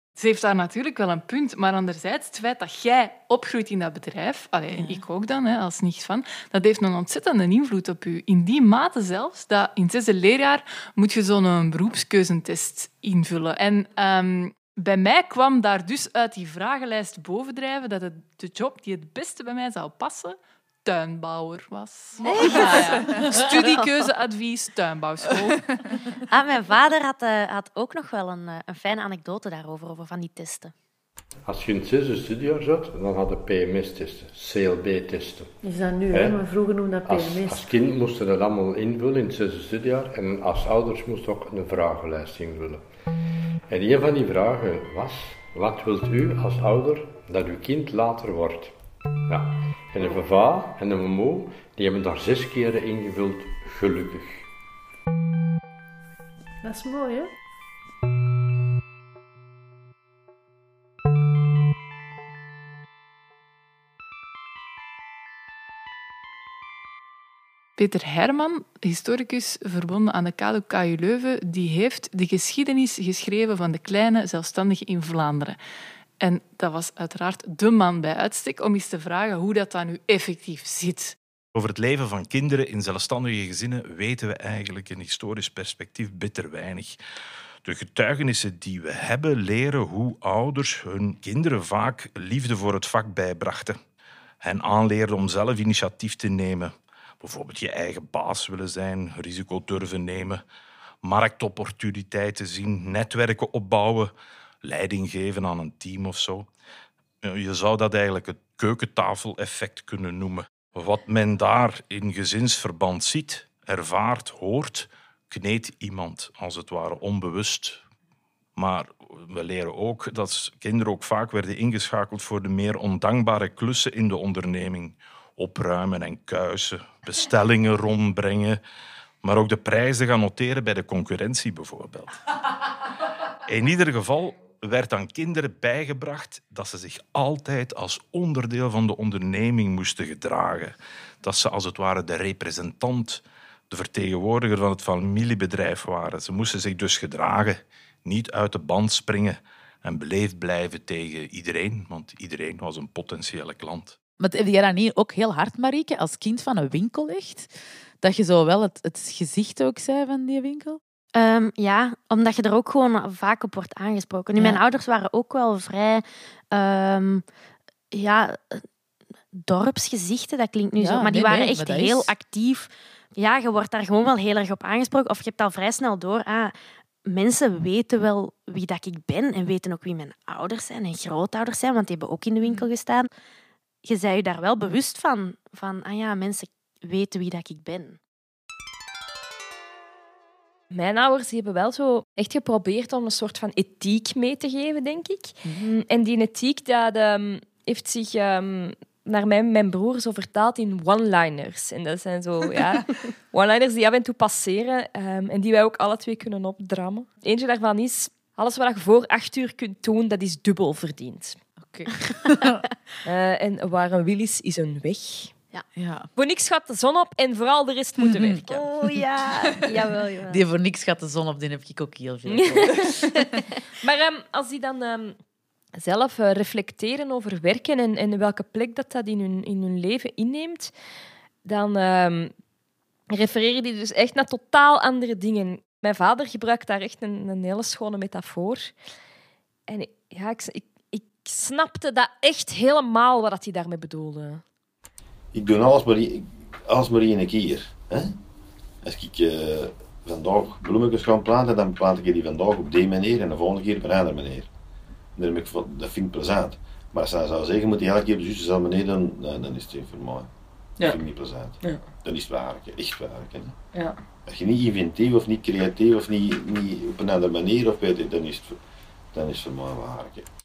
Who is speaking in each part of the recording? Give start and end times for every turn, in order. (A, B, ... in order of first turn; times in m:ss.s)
0:00.2-0:25.9 A
0:04.7-0:05.0 B
0:22.2-0:22.8 C
0:26.3-0:30.7 C
0:31.4-0:35.5 D
0:35.6-0:37.7 E
0:36.1-0:36.4 D
0:37.0-0:42.8 D
0:43.7-0:48.8 D
0:49.3-0:54.4 D
0:56.6-0:57.3 E
1:07.8-1:15.6 A
1:16.2-1:21.2 A
1:21.5-1:27.0 F
1:27.6-1:33.8 F
1:34.4-1:40.4 F
1:41.0-1:44.1 F
1:44.6-1:46.5 F
1:47.2-1:57.8 F
1:58.6-2:08.6 F
2:09.2-2:12.1 F
2:13.4-2:34.0 F
2:34.2-2:40.8 B
2:41.1-2:47.2 C
2:44.4-2:44.6 B
2:47.9-2:48.6 C
2:49.3-2:56.5 C
2:50.8-2:52.1 B
2:57.0-3:03.1 C
3:03.8-3:08.0 C
3:10.7-3:31.4 G
3:31.6-3:32.6 B
3:33.0-3:35.4 G
3:35.8-3:36.1 B
3:36.2-3:38.7 G
3:38.0-3:43.2 B
3:38.9-3:40.4 C
3:39.6-3:40.0 G
3:42.3-3:45.2 G
3:45.8-3:50.7 G
3:51.4-3:52.3 G
3:53.1-3:58.7 G
3:59.7-4:04.4 G
4:05.3-4:08.1 H
4:08.8-4:14.5 H
4:15.2-4:20.3 H
4:20.8-4:23.6 H
4:24.2-4:28.6 H
4:29.1-4:30.2 H